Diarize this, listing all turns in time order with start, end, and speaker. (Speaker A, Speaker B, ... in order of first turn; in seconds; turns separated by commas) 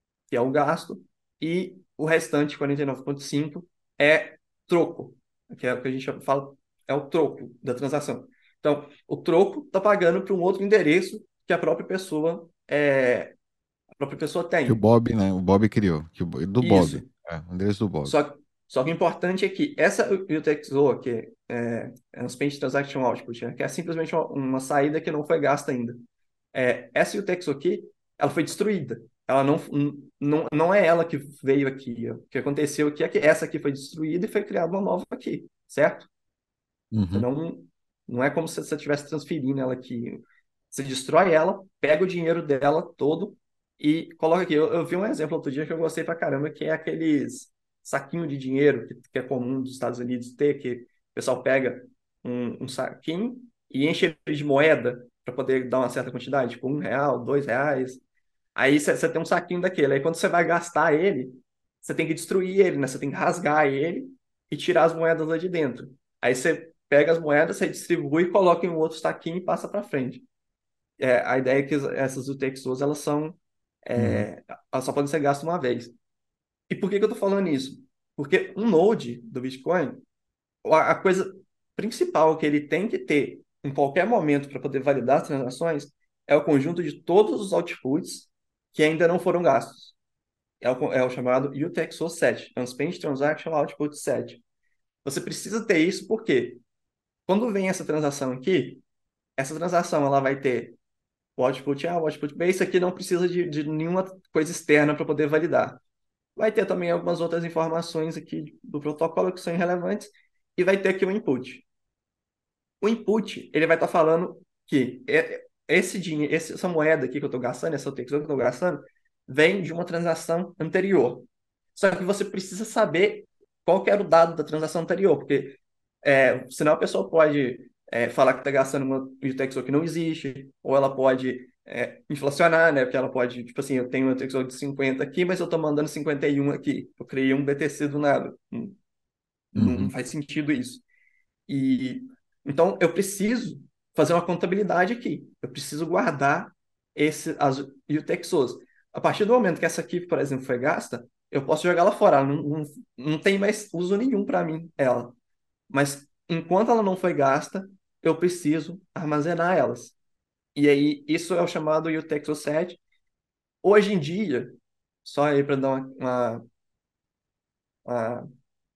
Speaker A: 0.3-13.3, Speaker A: 14.0-14.8, Speaker B: 14.7-18.1, Speaker A: 16.6-17.1, Speaker A: 18.0-26.0, Speaker A: 26.5-36.1, Speaker B: 36.9-37.3, Speaker A: 37.1-58.0, Speaker A: 58.5-70.2, Speaker A: 71.0-75.9, Speaker B: 74.0-74.2, Speaker A: 76.7-80.0, Speaker A: 80.6-89.9, Speaker A: 90.6-94.4, Speaker A: 95.0-96.6, Speaker A: 97.3-98.8, Speaker A: 99.4-100.8, Speaker A: 101.4-105.8, Speaker A: 106.3-111.6, Speaker A: 112.8-138.8, Speaker A: 139.5-140.8, Speaker B: 139.5-139.9, Speaker A: 141.5-155.1, Speaker A: 155.7-159.9, Speaker A: 160.5-162.8, Speaker A: 163.6-166.4, Speaker A: 167.8-168.2